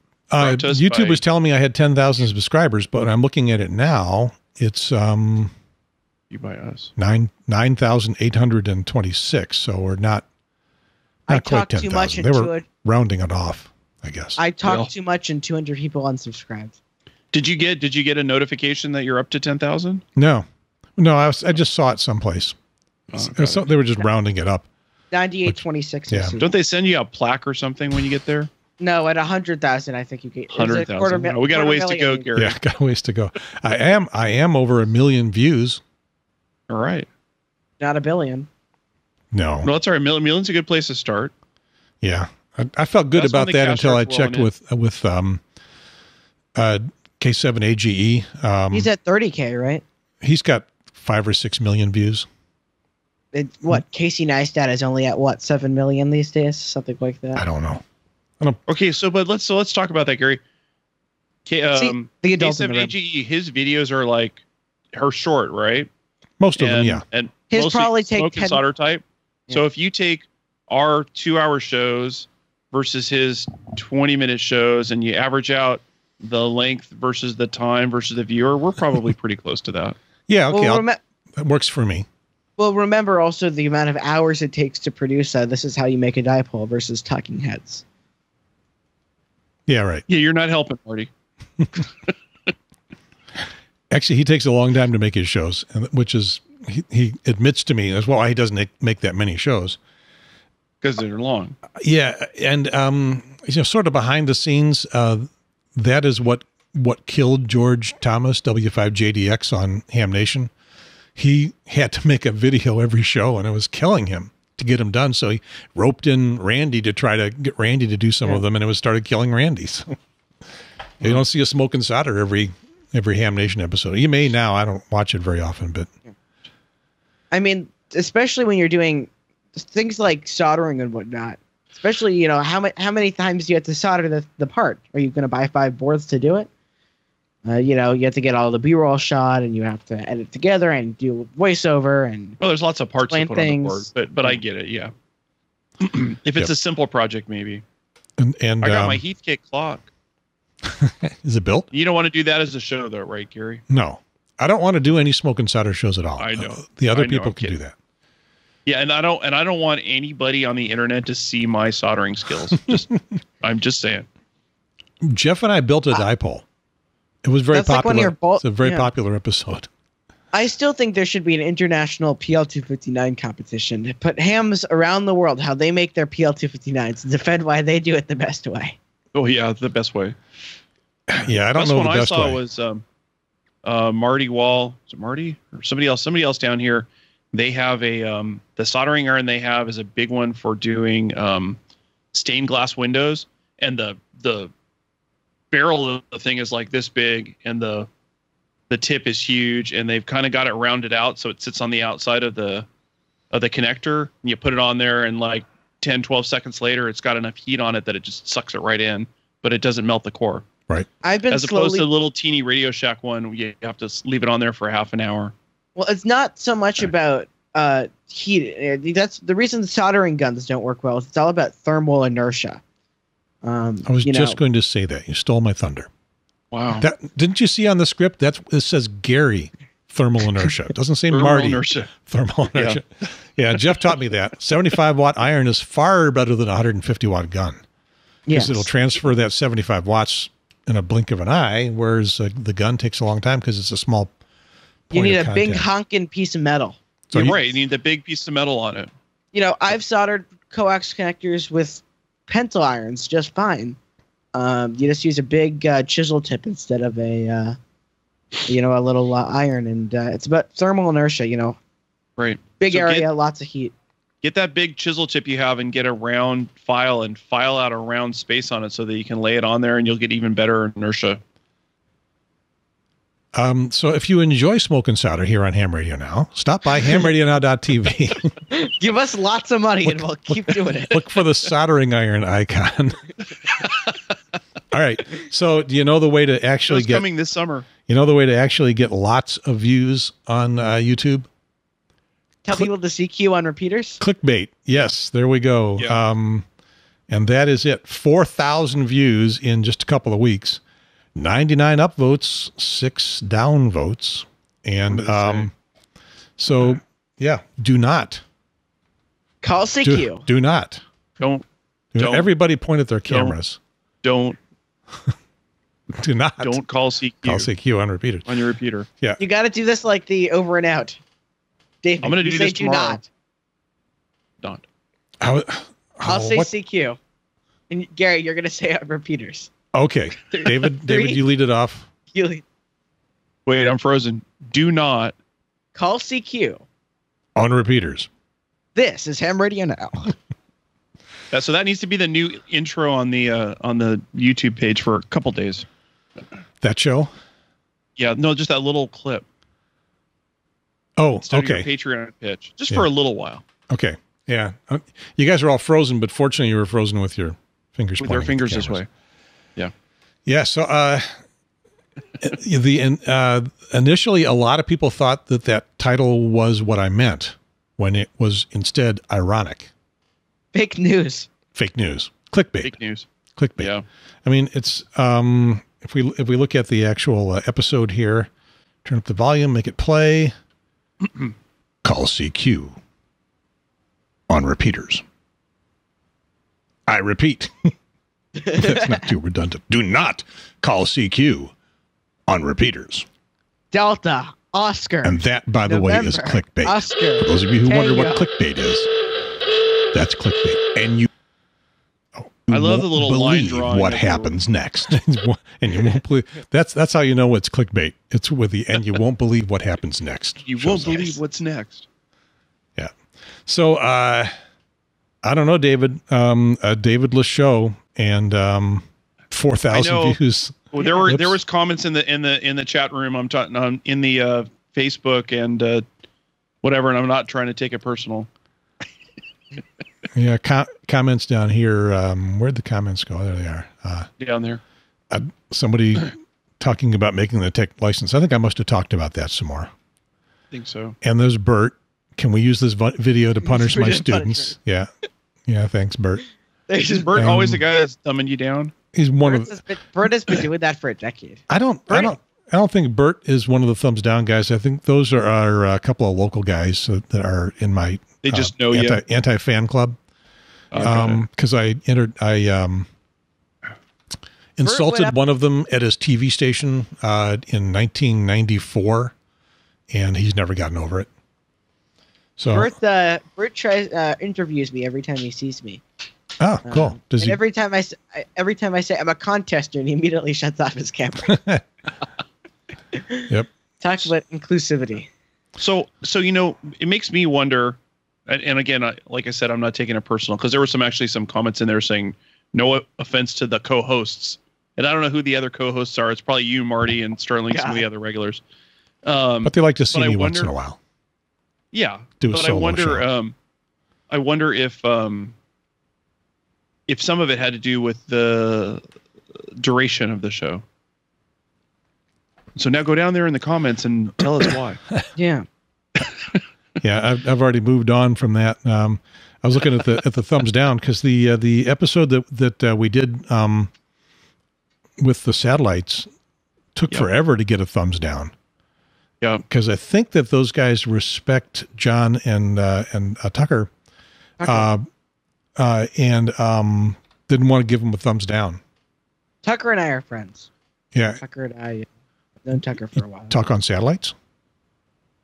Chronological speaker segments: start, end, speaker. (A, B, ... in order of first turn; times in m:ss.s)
0:00.3-0:05.5 A
0:00.4-0:01.2 B
0:06.3-0:06.9 B
0:07.0-0:10.2 A
0:11.3-0:12.6 C
0:11.3-0:14.4 A
0:14.4-0:16.8 C
0:14.6-0:14.9 B
0:17.3-0:20.0 B
0:20.1-0:22.6 A
0:23.1-0:23.7 B
0:23.1-0:24.7 A
0:25.1-0:26.5 C
0:25.5-0:26.3 A
0:26.4-0:28.5 B
0:28.8-0:32.3 C
0:30.5-0:32.6 B
0:32.4-0:35.8 A
0:36.7-0:37.1 B
0:37.8-0:38.5 C
0:39.3-0:39.7 A
0:39.6-0:41.3 B
0:42.0-0:45.4 A
0:43.1-0:44.5 B
0:46.5-0:48.9 A
0:48.7-0:49.8 C
0:50.2-0:52.3 A
0:53.3-0:57.4 C
0:57.4-0:57.8 A
0:58.7-1:00.4 B
1:01.4-1:04.4 B
1:01.7-1:02.9 C
1:04.9-1:05.9 B
1:06.4-1:07.0 A
1:06.6-1:20.0 B
1:07.5-1:08.6 C
1:20.3-1:20.8 A
1:20.5-1:21.0 C
1:21.4-1:22.1 A
1:22.6-1:27.8 C
1:29.7-1:30.0 A
1:30.1-1:31.1 B
1:33.9-1:39.8 A
1:40.8-1:41.6 B
1:41.7-1:50.5 A
1:51.2-1:59.9 A
2:01.0-2:05.9 A
2:07.3-2:16.5 C
2:17.4-2:22.4 C
2:22.4-2:24.9 B
2:23.1-2:23.9 C
2:25.8-2:27.6 B
2:28.2-2:29.0 A
2:28.6-2:29.9 B
2:30.6-2:31.7 A
2:31.7-2:33.6 B
2:33.7-2:37.7 A
2:36.2-2:37.6 B
2:38.6-2:44.1 B
2:45.0-2:46.4 A
2:47.2-2:49.7 A
2:47.5-2:48.9 C
2:50.3-2:58.8 C
2:59.1-3:00.2 B
3:01.1-3:02.4 A
3:01.5-3:02.8 B
3:03.6-3:11.6 B
3:12.1-3:14.5 B
3:15.5-3:17.9 B
3:18.7-3:22.7 B
3:23.3-3:30.4 B
3:31.0-3:31.9 C
3:31.3-3:35.3 B
3:35.8-3:42.6 C
3:43.4-3:44.4 C
3:43.8-3:45.9 A
3:46.5-3:46.9 B
3:46.8-3:57.6 A
3:51.1-3:51.9 B
3:52.5-3:52.8 B
3:58.3-3:58.7 C
3:58.3-4:04.1 A
4:04.9-4:05.7 A
4:04.9-4:06.8 C
4:07.1-4:07.4 A
4:07.1-4:08.9 B
4:09.3-4:13.8 C
4:14.3-4:17.6 C
4:18.5-4:21.6 C
4:22.2-4:23.1 B
4:22.6-4:23.7 C
4:24.2-4:31.2 B
4:33.3-4:38.3 A
4:38.5-4:41.0 C
4:39.8-4:43.0 A
4:44.7-4:47.0 A
4:46.7-4:47.7 B
4:47.9-4:51.3 A
4:52.4-4:54.0 C
4:54.0-4:56.4 A
4:57.1-5:00.6 A
5:01.2-5:05.5 A
5:04.9-5:05.5 B
5:06.4-5:08.2 A
5:09.4-5:10.2 C
5:09.8-5:10.8 A
5:11.2-5:11.4 B
5:11.9-5:13.6 A
5:12.0-5:12.3 B
5:13.1-5:13.3 B
5:14.0-5:14.4 B
5:15.9-5:16.6 A
5:16.4-5:17.5 B
5:17.2-5:18.3 A
5:18.2-5:18.9 B
5:19.2-5:21.0 C
5:21.8-5:23.0 C
5:22.0-5:23.0 B
5:25.2-5:26.5 A
5:26.0-5:27.0 C
5:27.7-5:29.5 C
5:29.7-5:31.9 A
5:30.3-5:31.2 C
5:32.1-5:32.4 C
5:33.4-5:35.1 B
5:35.7-5:36.6 C
5:37.4-5:38.1 A
5:38.7-5:40.1 C
5:41.3-5:45.6 B
5:46.6-5:47.1 A
5:48.0-5:49.2 B
5:51.0-5:51.7 A
5:51.2-5:53.4 B
5:53.7-5:58.8 A
5:58.0-5:58.9 B
6:00.2-6:01.2 A
6:02.2-6:09.7 A
6:10.5-6:11.3 C
6:11.5-6:12.8 A
6:12.6-6:13.0 B
6:13.3-6:13.7 A
6:13.6-6:13.8 B
6:14.2-6:18.3 A
6:18.8-6:20.3 A
6:21.8-6:22.8 A
6:24.3-6:25.0 A
6:26.9-6:27.7 A
6:28.4-6:29.0 C
6:28.5-6:31.5 A
6:32.3-6:33.1 A
6:33.7-6:38.2 C
6:35.0-6:38.9 A
6:39.9-6:41.1 A
6:42.2-6:51.2 A
6:42.5-6:44.4 B
6:50.4-6:51.8 B
6:53.4-6:54.3 A
6:55.2-7:01.4 A
6:59.7-7:00.2 B
7:00.7-7:05.8 B
7:06.6-7:08.3 B
7:10.1-7:14.1 A
7:14.2-7:14.6 B
7:15.1-7:19.7 A
7:20.5-7:21.0 B
7:21.0-7:24.9 A
7:23.4-7:24.5 C
7:25.5-7:26.2 A
7:26.7-7:27.3 C
7:26.8-7:28.7 B
7:27.2-7:27.6 A
7:28.9-7:29.6 A
7:29.2-7:32.1 C
7:31.5-7:40.0 A
7:38.2-7:39.0 B
7:40.7-7:41.2 B
7:40.7-7:42.9 A
7:44.6-7:49.1 A
7:44.6-7:45.2 C
7:49.9-7:51.1 A
7:52.4-7:52.7 A
7:52.5-7:55.8 C
7:56.4-7:57.4 A
7:56.6-8:01.4 C
8:01.3-8:01.6 A
8:02.9-8:05.1 C
8:05.6-8:18.4 B
8:17.5-8:17.8 C
8:19.0-8:20.5 B
8:19.4-8:20.8 A
8:21.7-8:23.3 B
8:22.2-8:23.0 A
8:24.1-8:25.3 B
8:26.9-8:28.8 B
8:29.5-8:30.6 B
8:32.6-8:34.8 B
8:35.2-8:35.4 C
8:36.8-8:43.7 A
8:45.0-8:46.1 A
8:46.7-8:48.3 A
8:49.5-8:53.7 A
8:54.4-8:54.7 C
8:54.4-8:54.9 A
8:55.6-8:58.6 A
8:59.4-9:00.5 C
9:00.9-9:01.2 A
9:01.2-9:01.9 C
9:02.4-9:03.3 C
9:03.3-9:04.1 A